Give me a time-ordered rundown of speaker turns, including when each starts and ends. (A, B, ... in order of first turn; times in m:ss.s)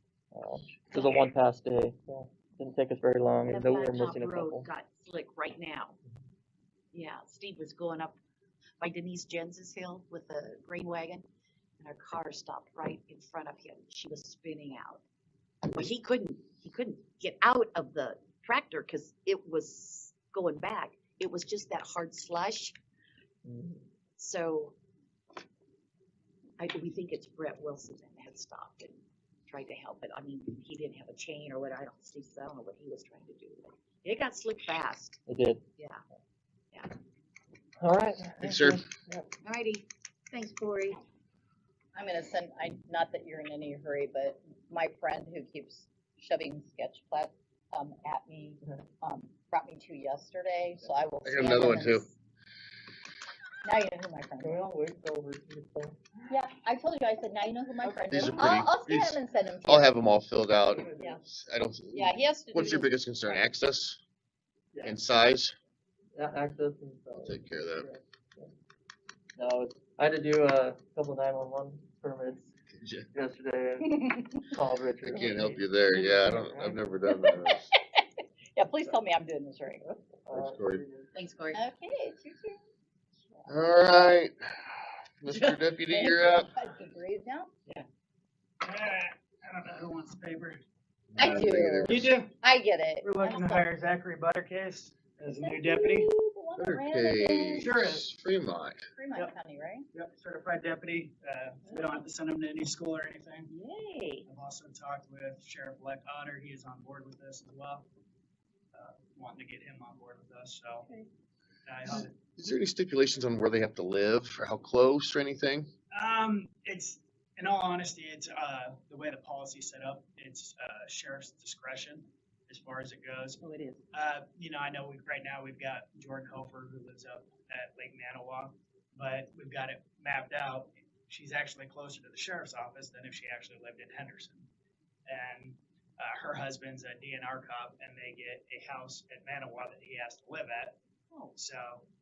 0:00.3-0:04.7 A
0:00.9-0:01.3 B
0:03.5-0:06.0 B
0:06.9-0:08.2 B
0:08.8-0:11.3 B
0:11.8-0:15.0 B
0:15.6-0:22.8 B
0:23.4-0:23.8 A
0:24.2-0:24.7 B
0:26.6-0:35.2 B
0:35.3-0:35.6 A
0:35.8-0:36.0 B
0:37.8-0:39.3 A
0:38.4-0:38.9 C
0:39.4-0:41.0 B
0:42.0-0:52.1 D
0:51.2-0:52.1 C
0:53.6-0:54.6 D
0:54.4-0:56.1 A
0:56.3-0:59.9 D
0:57.8-0:58.5 A
0:58.1-1:04.0 C
1:00.8-1:01.2 A
1:01.9-1:03.4 D
1:04.7-1:05.0 A
1:04.8-1:05.6 C
1:06.2-1:08.5 A
1:07.2-1:07.9 C
1:09.4-1:12.5 A
1:12.7-1:13.1 C
1:13.1-1:16.8 A
1:14.0-1:14.4 D
1:15.0-1:17.7 C
1:17.1-1:18.0 D
1:18.6-1:19.8 D
1:19.8-1:21.1 A
1:20.3-1:20.8 C
1:21.2-1:22.6 D
1:21.2-1:21.6 B
1:23.5-1:26.5 C
1:25.3-1:27.5 D
1:28.6-1:30.6 E
1:31.1-1:32.1 C
1:31.2-1:33.7 D
1:31.9-1:32.4 E
1:33.0-1:36.1 E
1:35.3-1:37.7 D
1:36.6-1:38.9 C
1:37.6-1:38.1 E
1:39.0-1:39.9 D
1:39.9-1:43.5 E
1:41.7-1:42.0 B
1:43.5-1:44.3 B
1:44.3-1:47.9 E
1:48.7-1:50.9 E
1:50.8-1:51.1 B
1:51.7-1:52.2 E
1:52.4-1:55.7 C
1:55.9-2:03.4 E
2:03.4-2:03.8 B
2:03.9-2:14.5 E
2:15.1-2:20.8 E
2:21.4-2:21.8 E